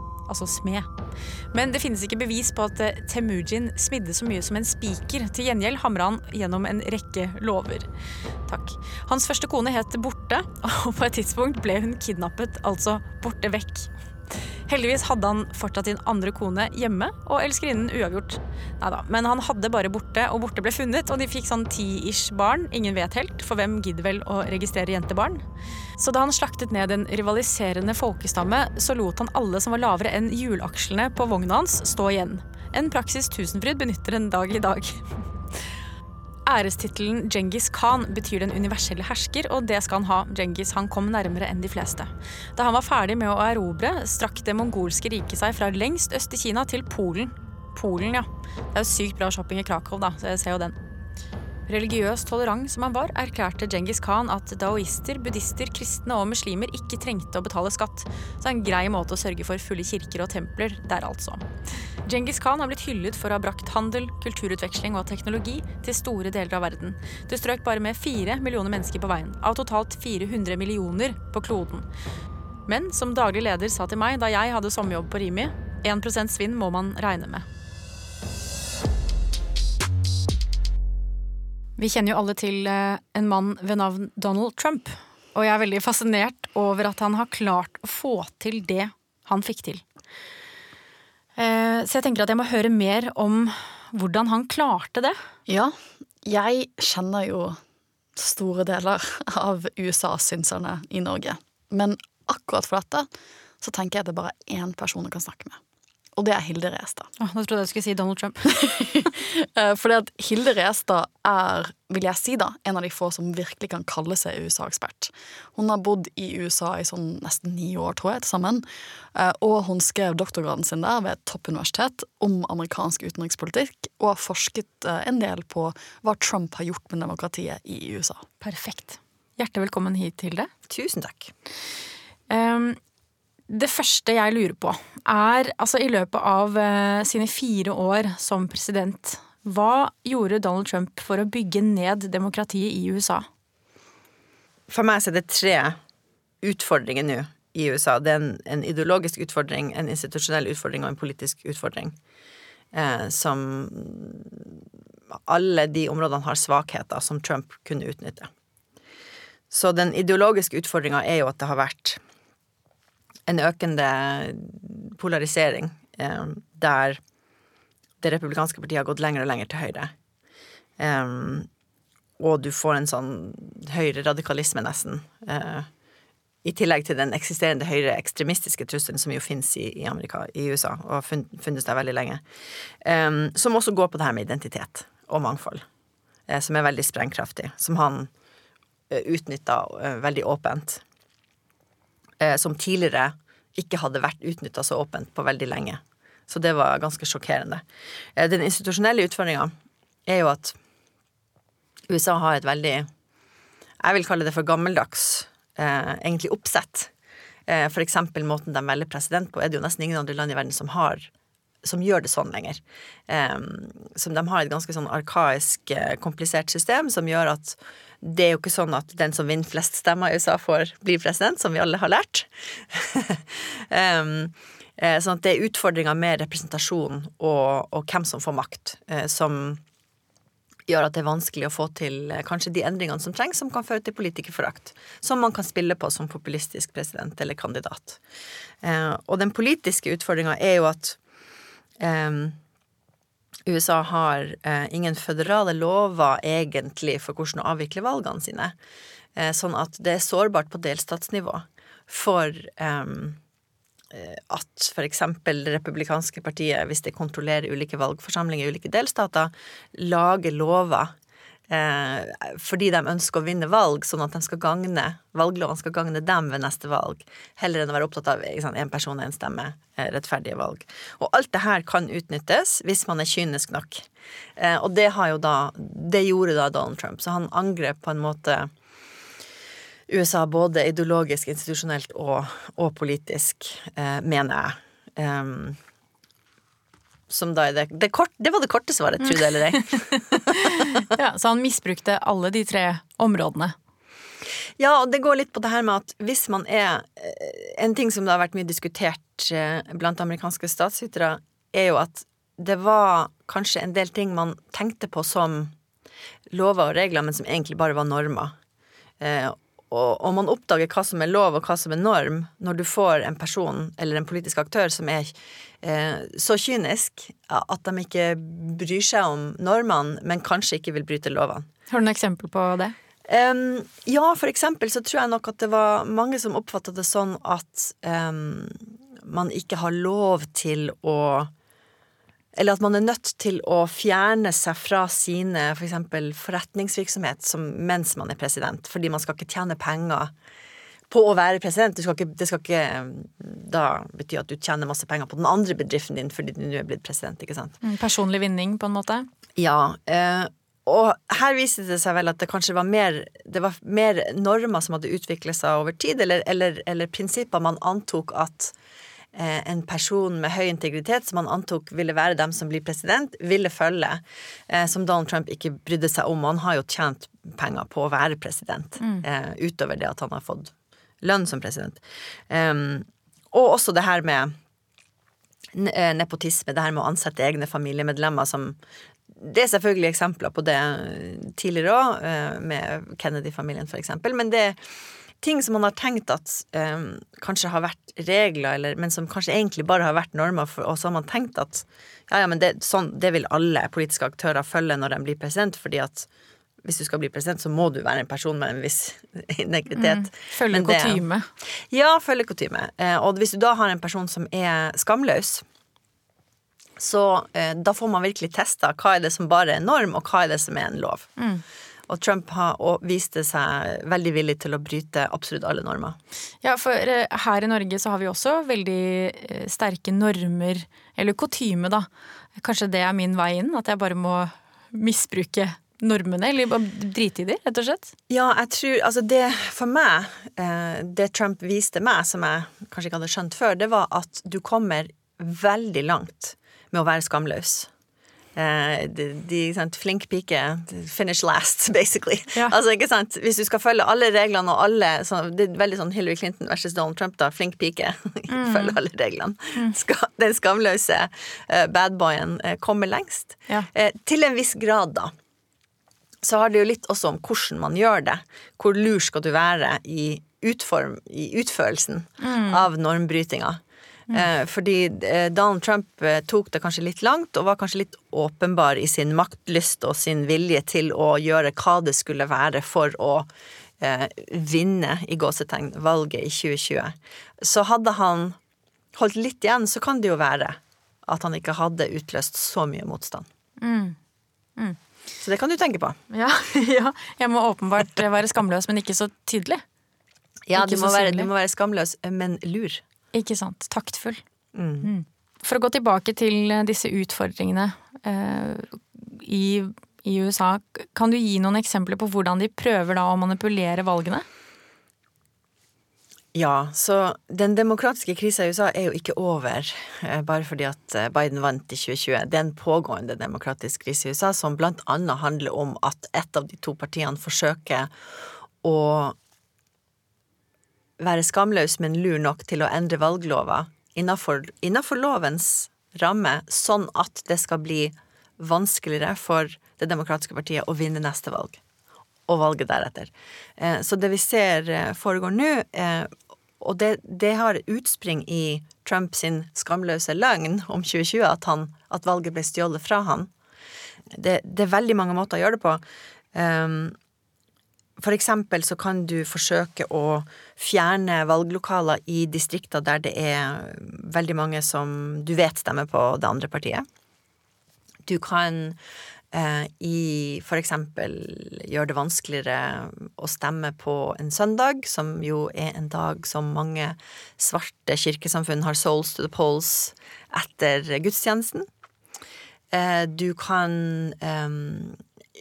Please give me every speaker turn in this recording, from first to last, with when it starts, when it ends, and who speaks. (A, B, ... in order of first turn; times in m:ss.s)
0:00.3-0:00.9 A
0:01.5-0:07.9 A
0:08.5-0:13.9 A
0:14.7-0:25.4 A
0:26.0-0:35.1 A
0:36.5-0:50.8 A
0:51.7-1:01.4 A
1:02.0-1:11.9 A
1:12.7-1:17.5 A
1:21.8-1:29.8 A
1:31.4-1:35.2 A
1:35.5-1:37.6 B
1:38.2-1:43.1 B
1:43.6-1:45.6 B
1:46.2-1:47.1 B
1:47.2-1:48.9 A
1:48.5-2:08.2 B
2:08.4-2:10.5 A
2:10.7-2:11.3 C
2:12.3-2:12.8 A
2:13.5-2:23.3 A
2:24.7-2:25.8 C
2:26.4-2:32.0 C
2:32.7-2:34.6 C
2:35.3-2:38.3 C
2:39.5-2:42.0 C
2:43.3-2:47.0 C
2:48.0-2:49.9 C
2:50.8-2:51.5 C
2:52.2-2:55.7 C
2:56.4-3:02.2 C
3:02.8-3:05.6 C
3:06.3-3:08.1 C
3:08.9-3:10.8 C
3:12.2-3:17.6 C
3:18.2-3:19.5 C
3:20.1-3:20.6 C
3:21.9-3:22.9 C
3:23.8-3:26.9 C
3:27.5-3:31.1 C
3:31.6-3:49.6 C
3:50.7-3:58.0 C
3:58.6-4:01.0 C
4:01.8-4:02.4 C
4:03.5-4:08.5 C
4:09.2-4:13.2 C
4:13.9-4:20.9 C
4:21.5-4:33.9 C
4:34.4-4:38.5 C
4:39.9-4:45.6 C
4:47.1-4:50.8 C
4:50.3-4:53.6 A
4:54.6-5:05.5 C
5:06.3-5:08.4 C
5:09.0-5:21.5 C
5:21.7-5:22.8 A
5:23.1-5:31.3 C
5:32.4-5:40.1 C
5:40.9-5:47.6 C
5:47.6-5:49.1 A
5:49.4-5:58.5 C
5:59.1-6:14.4 C
6:15.6-6:18.6 C
6:19.2-6:24.6 C
6:25.2-6:36.1 C
6:36.6-6:41.0 C
6:39.8-6:41.3 A
6:41.7-6:45.4 C
6:46.8-6:51.1 C
6:51.2-6:51.4 A
6:51.9-6:56.0 C
6:56.4-7:07.9 A
7:08.1-7:17.7 C
7:18.4-7:35.1 C
7:28.3-7:28.8 A
7:36.2-7:43.6 C
7:42.2-7:42.6 A
7:44.1-7:53.3 C
7:53.8-7:58.4 C
7:59.0-8:03.3 C
8:03.6-8:04.0 A
8:05.2-8:06.0 C
8:06.1-8:09.6 A
8:10.5-8:12.8 C
8:10.6-8:11.3 A
8:13.1-8:14.2 A
8:14.6-8:14.9 C
8:14.8-8:24.2 A
8:26.3-8:37.9 C
8:38.6-8:39.2 C
8:41.0-8:51.6 C
8:52.3-9:03.3 C
9:04.1-9:05.8 C
9:06.3-9:07.0 C
9:08.0-9:16.9 C
9:18.1-9:18.8 C
9:19.3-9:31.7 C
9:32.7-9:35.0 C